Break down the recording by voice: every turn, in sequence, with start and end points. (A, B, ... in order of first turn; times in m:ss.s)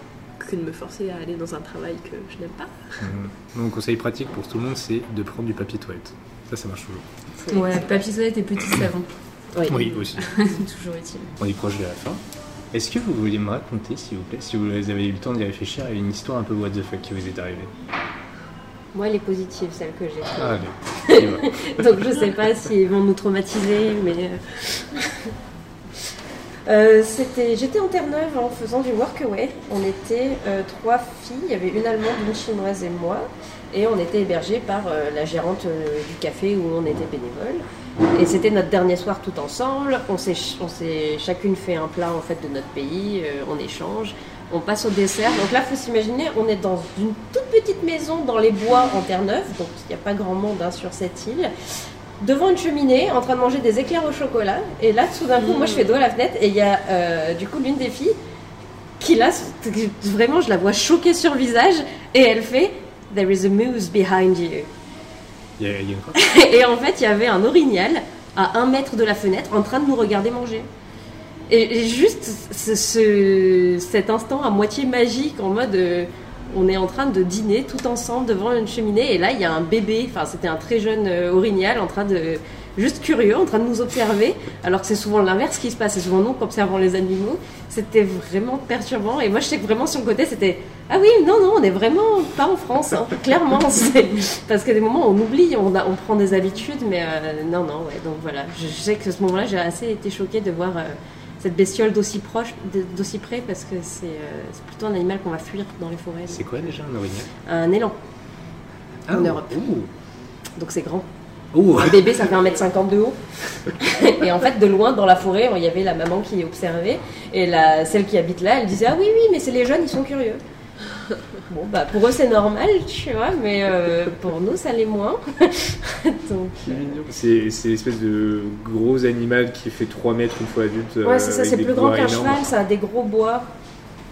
0:00.4-0:03.1 A
0:03.0-0:07.0 B
0:07.4-0:08.1 C
0:07.5-0:09.1 D
0:09.5-0:09.8 C
0:09.7-0:10.3 B
0:10.1-0:11.3 D
0:11.4-0:17.7 B
0:18.9-0:25.3 C
0:20.4-0:21.9 B
0:26.7-0:37.6 C
0:38.1-0:51.5 C
0:52.2-0:58.2 C
0:59.0-1:04.7 C
1:05.6-1:06.2 B
1:06.2-1:10.7 C
1:11.5-1:46.7 C
1:46.3-1:47.3 B
1:47.4-1:48.0 C
1:49.1-1:49.9 B
1:49.1-1:49.6 C
1:50.6-1:51.1 C
1:51.5-1:52.1 B
1:51.7-2:00.4 C
2:01.5-2:07.0 C
2:06.7-2:12.4 B
2:11.0-2:13.5 C